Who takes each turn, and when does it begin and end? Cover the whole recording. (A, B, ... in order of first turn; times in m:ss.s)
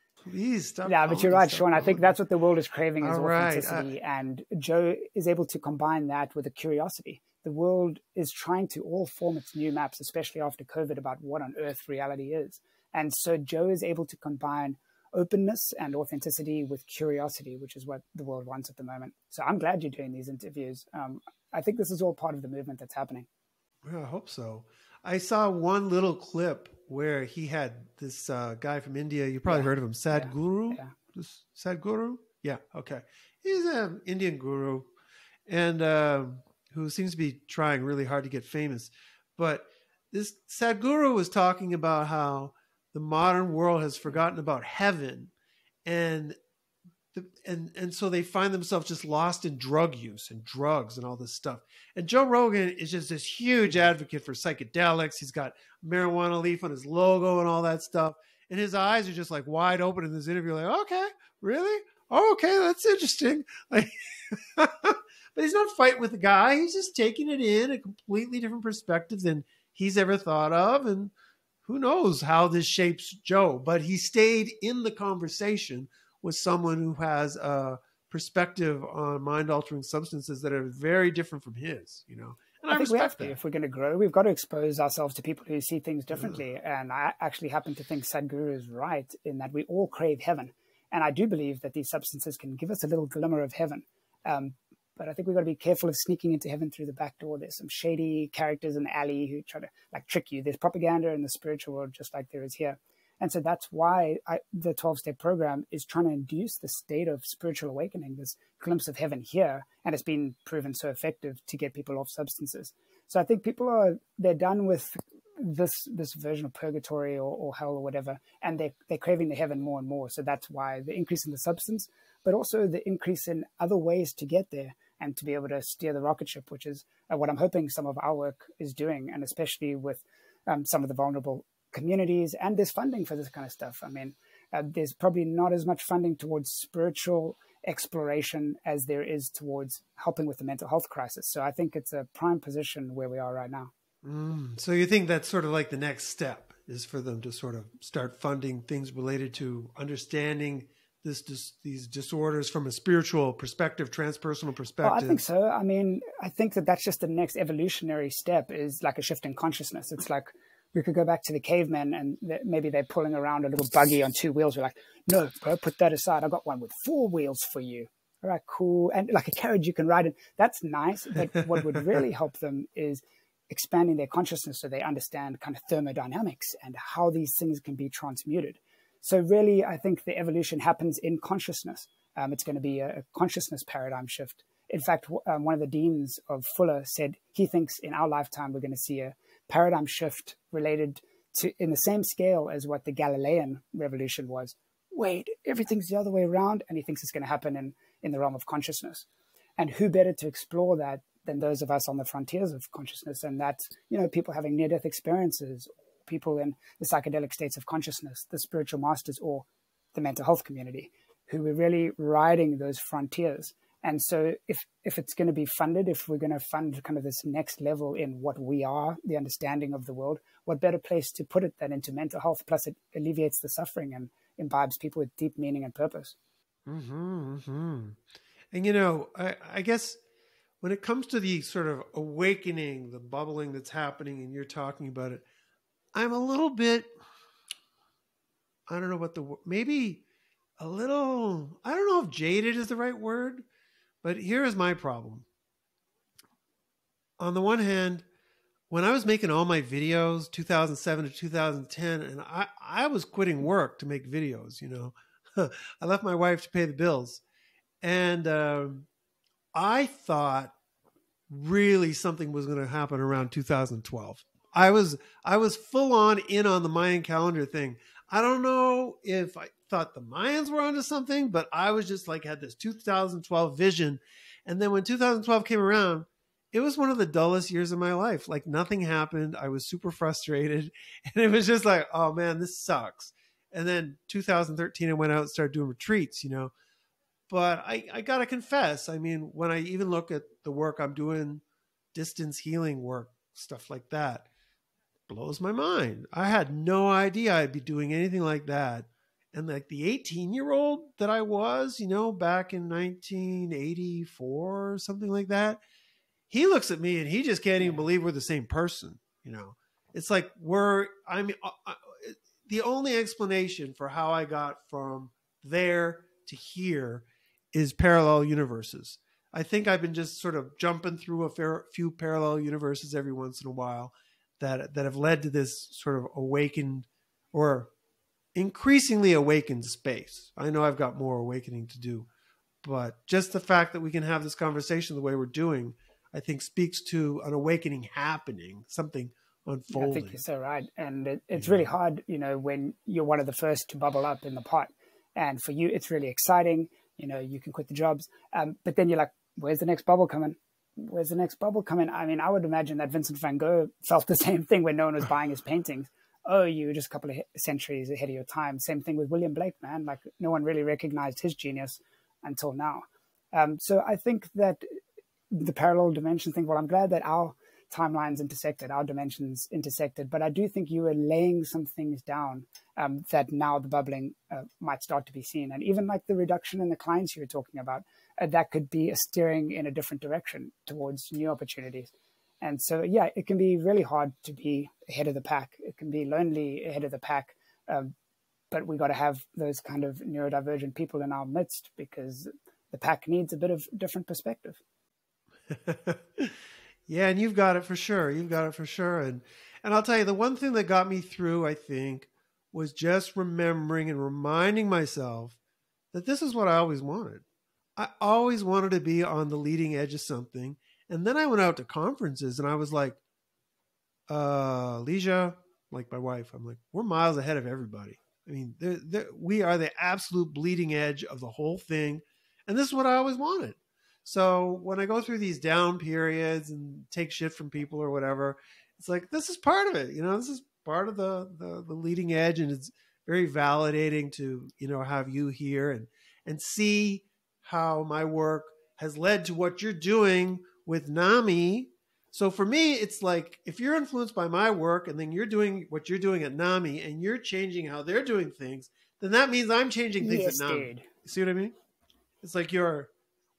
0:00.2-0:02.1 A
0:00.8-0:23.3 B
0:03.0-0:03.9 A
0:23.8-0:34.9 A
0:29.5-0:30.9 B
0:35.5-0:45.3 A
0:45.8-0:46.4 A
0:47.1-1:11.1 A
1:11.6-1:23.4 A
1:22.7-2:23.7 B
2:24.0-2:35.2 A
2:34.8-3:19.0 B
2:51.5-2:52.0 A
3:19.6-3:46.1 B
3:46.7-3:50.0 A
3:50.6-3:55.2 A
3:55.9-3:56.9 A
3:58.7-4:00.0 A
4:00.6-4:03.4 A
4:04.0-4:05.2 A
4:07.2-4:08.0 A
4:08.7-4:17.2 A
4:17.8-4:18.9 A
4:19.5-4:20.5 A
4:21.3-4:46.5 A
4:47.3-4:51.4 A
4:51.9-4:54.3 A
4:55.1-5:05.6 A
5:06.3-5:27.7 A
5:07.6-5:07.8 B
5:28.3-5:32.1 A
5:32.6-5:40.2 A
5:39.7-6:04.6 B
5:41.3-5:41.7 A
6:05.3-6:27.9 B
6:28.5-6:34.6 B
6:35.5-6:45.4 A
6:45.9-6:47.2 A
6:47.8-6:53.0 A
6:54.1-7:31.5 A
7:30.0-7:30.9 B
7:32.2-7:32.9 A